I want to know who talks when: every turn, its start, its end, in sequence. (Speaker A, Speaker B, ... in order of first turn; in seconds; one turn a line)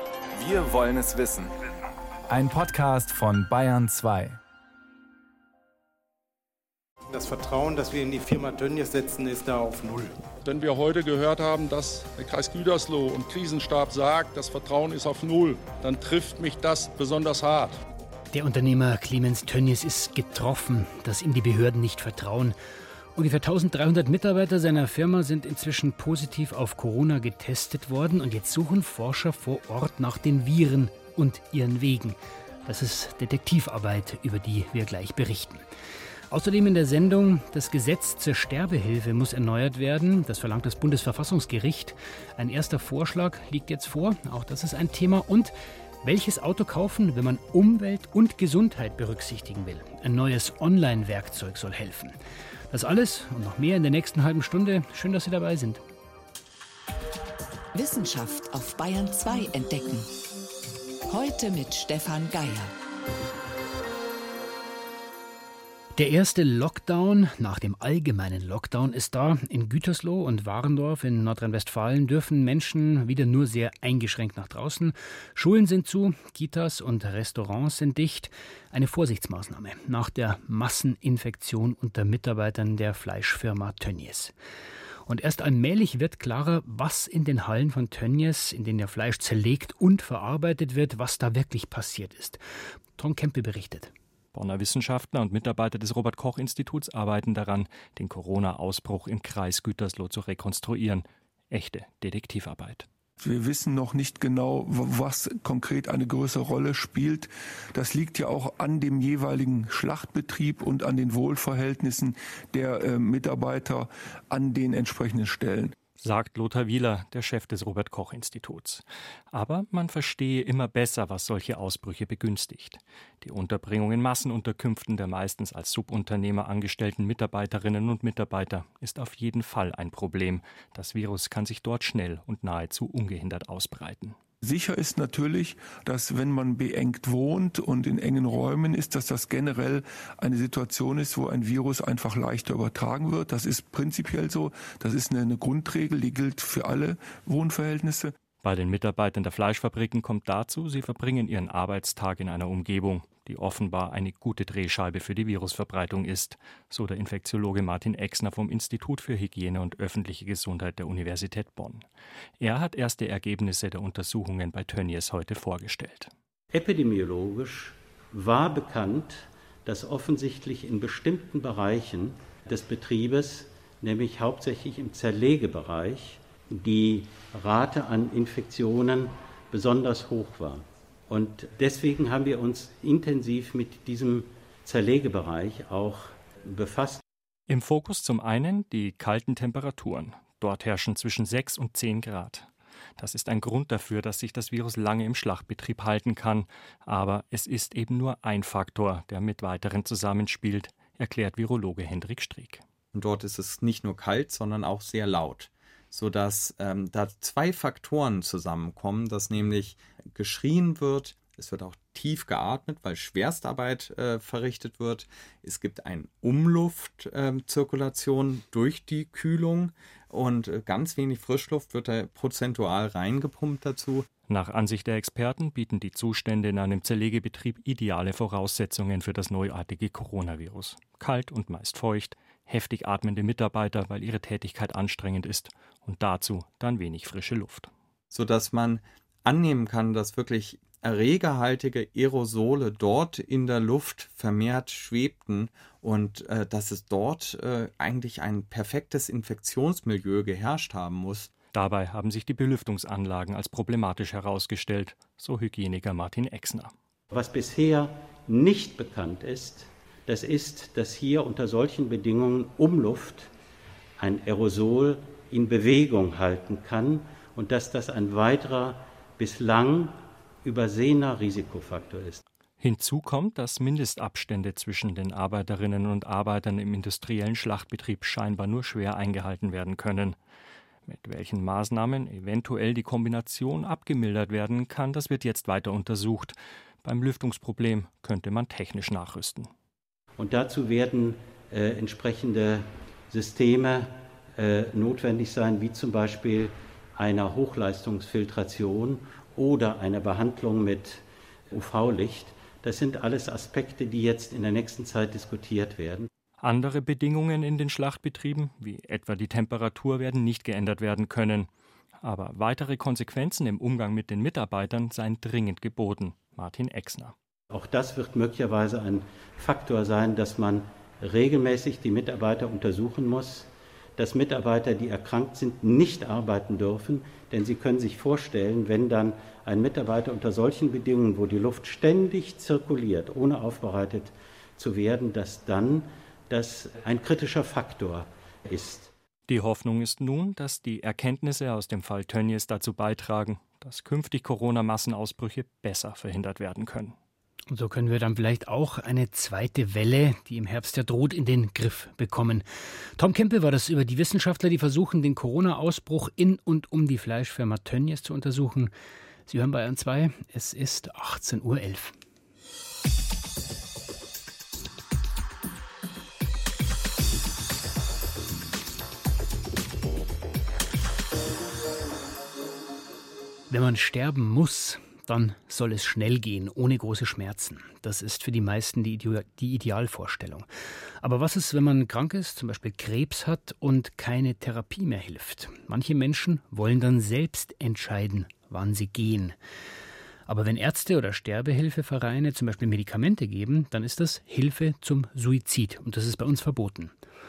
Speaker A: 0.3-1.5
Speaker A: 2.3-4.4
Speaker B: 7.1-10.2
Speaker C: 10.4-17.8
Speaker D: 18.3-22.6
Speaker D: 23.1-35.6
Speaker D: 36.3-52.2
Speaker D: 52.7-55.8
Speaker E: 57.7-60.1
Speaker E: 61.1-62.7
Speaker D: 66.0-84.3
Speaker D: 85.0-92.4
Speaker D: 93.0-93.9
Speaker F: 94.3-102.8
Speaker G: 103.2-115.7
Speaker F: 115.9-134.1
Speaker G: 134.4-148.1
Speaker F: 148.4-161.8
Speaker F: 162.4-166.1
Speaker H: 166.5-187.0
Speaker F: 187.5-202.6
Speaker I: 202.9-224.1
Speaker F: 224.2-237.7
Speaker I: 238.1-251.3
Speaker F: 251.5-256.7
Speaker H: 257.1-263.3
Speaker H: 264.0-272.2
Speaker F: 272.6-280.2
Speaker F: 280.9-289.5
Speaker H: 290.2-306.1
Speaker F: 306.4-311.5
Speaker F: 312.0-317.1
Speaker H: 317.5-338.9
Speaker F: 339.3-346.9
Speaker D: 347.5-352.4
Speaker D: 353.0-358.7
Speaker D: 359.3-361.9
Speaker D: 373.5-380.4
Speaker D: 381.0-389.4
Speaker D: 390.3-396.9